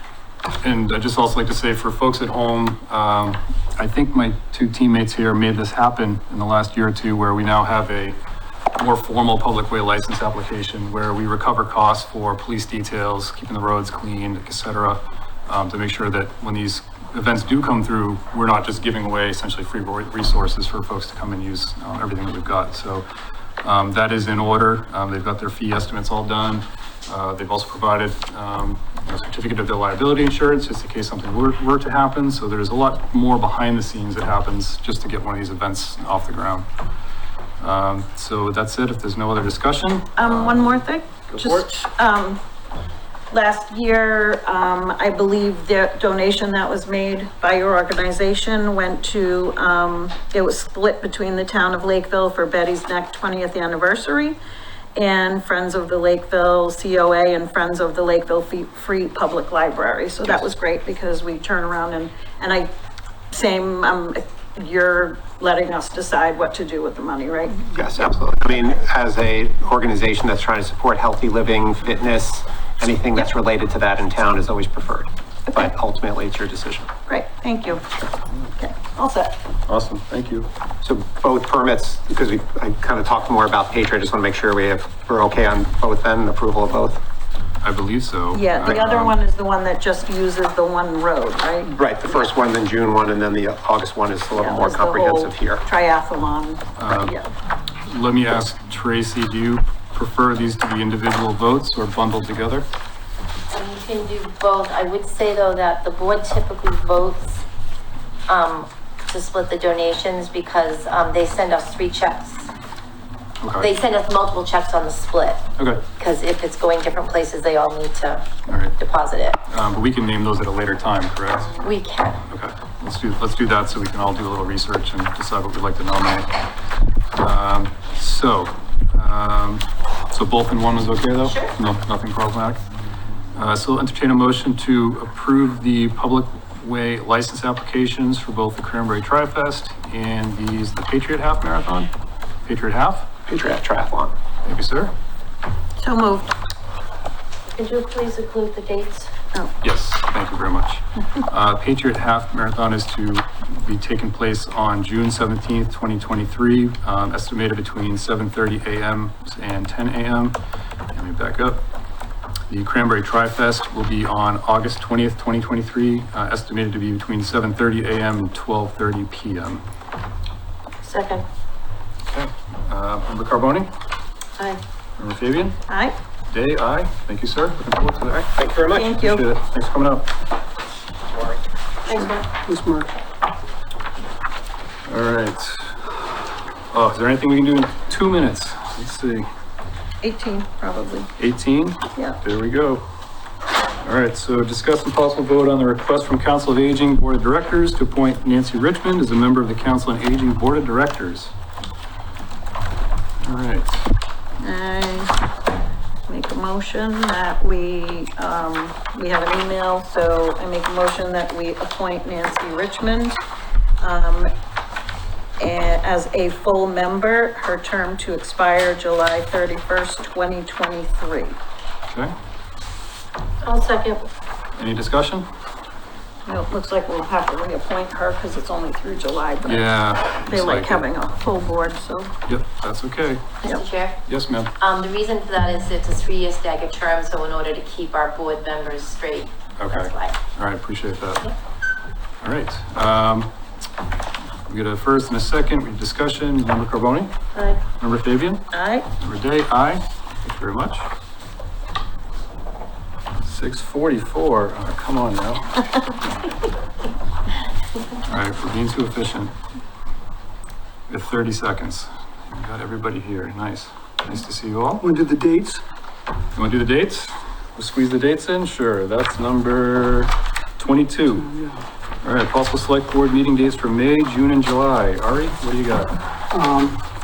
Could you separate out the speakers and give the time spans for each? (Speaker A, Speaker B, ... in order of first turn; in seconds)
Speaker A: 0.6-8.2, 8.8-23.1, 23.6-36.7, 37.6-41.7, 79.7-80.5, 87.6-89.2, 96.8-97.1, 97.8-102.7, 113.4-113.7, 115.6-115.8, 118.5-118.8, 119.5-121.5, 122.3-126.3, 127.2-132.6, 133.3-141.9, 142.4-143.1, 144.4-144.9, 149.6-160.4, 160.9-161.6, 162.5-169.6, 172.1-173.7, 175.0-175.6, 176.3-178.3, 178.9-180.1, 184.9-185.9, 186.7-189.3, 191.2-192.9, 193.8-201.3, 203.2-203.8, 221.9-222.1, 224.6-225.3, 229.5-230.8, 232.3-233.3, 234.1-234.5, 239.6-241.2, 242.2-243.3, 244.5-247.1, 247.8-248.4, 249.0-250.9, 253.2-255.6, 258.1-259.3, 260.9-264.8, 266.4-271.2, 272.0-275.9
Speaker B: 40.2-42.4, 43.3-54.4, 55.0-62.7, 63.3-67.7, 77.1-77.8, 78.5-79.3, 88.3-92.3, 94.4-97.3, 145.8-146.3, 175.7-175.9, 178.7-179.2, 190.0-191.1, 204.4-205.1, 206.1-213.2, 213.8-214.3, 215.4-221.4, 226.3-232.1, 248.5-248.9
Speaker C: 67.7-76.9, 80.8-87.0, 91.7-95.6, 143.3-144.1, 178.4-178.9
Speaker D: 103.5-107.4, 108.3-112.5, 113.6-115.4, 116.0-118.3, 118.8-119.4, 121.6-122.2, 131.2-131.6, 147.5-149.1, 170.8-171.3, 181.8-182.3, 223.4-224.1, 233.4-234.0, 234.6-240.2, 247.3-247.6
Speaker E: 182.4-182.9, 264.8-265.6, 271.1-271.6, 276.3-276.8